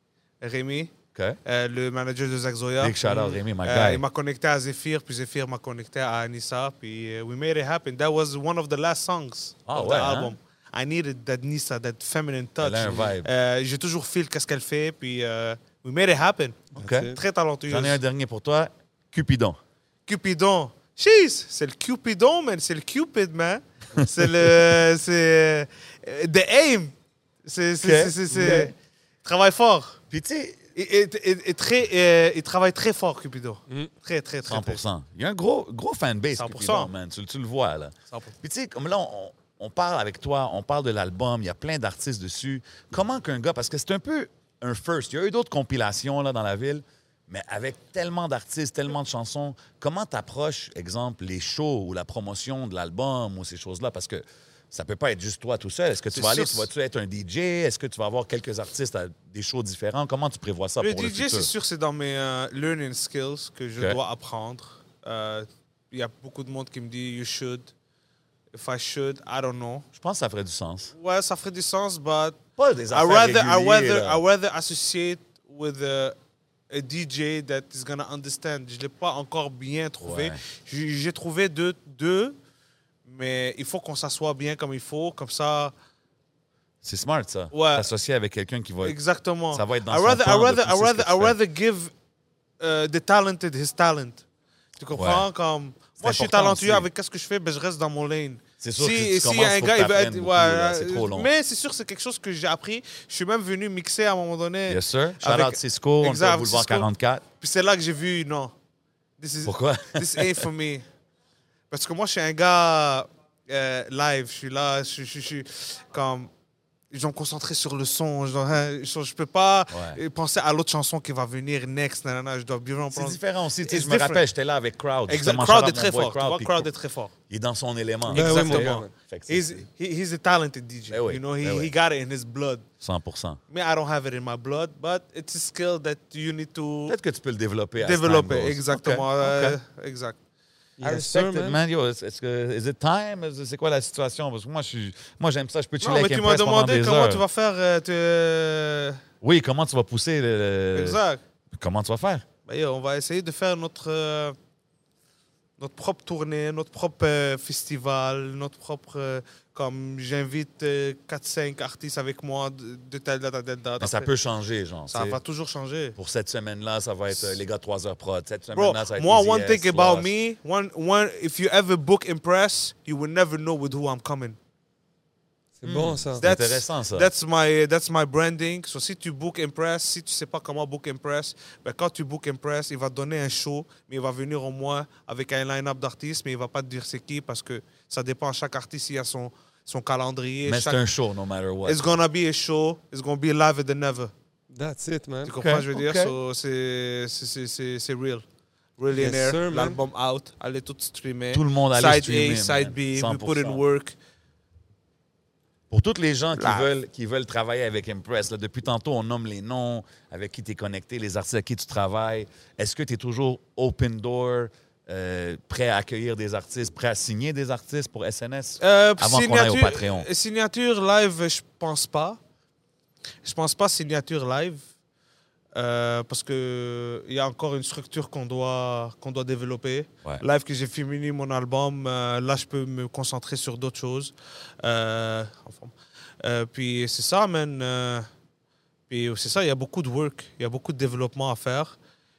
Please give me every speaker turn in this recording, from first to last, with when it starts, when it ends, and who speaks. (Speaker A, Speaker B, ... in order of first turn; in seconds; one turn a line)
Speaker A: 0.4-0.9
Speaker A: 1.4-3.0
Speaker B: 2.8-4.0
Speaker C: 3.0-3.4
Speaker A: 3.6-18.0
Speaker B: 9.7-10.3
Speaker B: 12.6-13.3
Speaker B: 16.7-17.1
Speaker C: 16.8-17.2
Speaker B: 17.7-19.6
Speaker A: 20.1-26.9
Speaker A: 27.4-28.7
Speaker B: 27.8-28.7
Speaker C: 28.3-28.7
Speaker A: 29.2-30.0
Speaker B: 30.1-30.6
Speaker A: 30.7-34.8
Speaker B: 34.5-61.5
Speaker A: 36.3-36.9
Speaker A: 56.1-56.7
Speaker A: 60.8-67.7
Speaker A: 68.5-69.9
Speaker B: 69.9-70.9
Speaker A: 71.0-72.4
Speaker B: 72.6-74.2
Speaker A: 72.9-76.2
Speaker A: 76.7-82.3
Speaker B: 80.0-80.4
Speaker A: 83.0-85.7
Speaker B: 86.8-89.0
Speaker A: 87.5-87.9
Speaker A: 88.8-91.9
Speaker B: 89.5-91.3
Speaker A: 92.6-94.2
Speaker A: 94.8-106.9
Speaker B: 94.9-95.2
Speaker B: 96.0-96.9
Speaker B: 98.6-101.3
Speaker B: 104.7-107.2
Speaker A: 107.4-108.5
Speaker A: 109.2-110.8
Speaker B: 109.4-110.5
Speaker A: 111.7-116.3
Speaker A: 116.9-124.2
Speaker B: 119.7-120.0
Speaker B: 122.9-126.7
Speaker A: 125.1-127.1
Speaker B: 127.3-129.6
Speaker C: 128.1-128.9
Speaker A: 128.1-132.6
Speaker B: 130.9-131.7
Speaker B: 132.8-133.4
Speaker A: 133.5-137.0
Speaker B: 136.9-139.6
Speaker A: 137.8-140.2
Speaker C: 140.8-141.6
Speaker B: 140.8-147.2
Speaker A: 145.8-149.0
Speaker B: 149.2-151.0
Speaker A: 150.7-151.2
Speaker B: 151.5-152.2
Speaker A: 152.4-154.3
Speaker A: 155.6-164.1
Speaker B: 163.8-165.2
Speaker A: 164.9-165.9
Speaker B: 165.9-170.1
Speaker A: 168.5-174.3
Speaker C: 175.6-176.3
Speaker B: 175.6-177.1
Speaker A: 176.2-190.8
Speaker B: 190.4-191.9
Speaker A: 191.6-194.1
Speaker C: 194.5-195.3
Speaker A: 195.2-198.2
Speaker B: 195.4-196.1
Speaker A: 198.8-203.9
Speaker C: 198.9-199.8
Speaker B: 201.3-203.6
Speaker B: 205.7-220.1
Speaker A: 206.4-206.7
Speaker A: 218.6-222.2
Speaker A: 223.2-224.6
Speaker A: 225.5-238.1
Speaker A: 238.9-241.7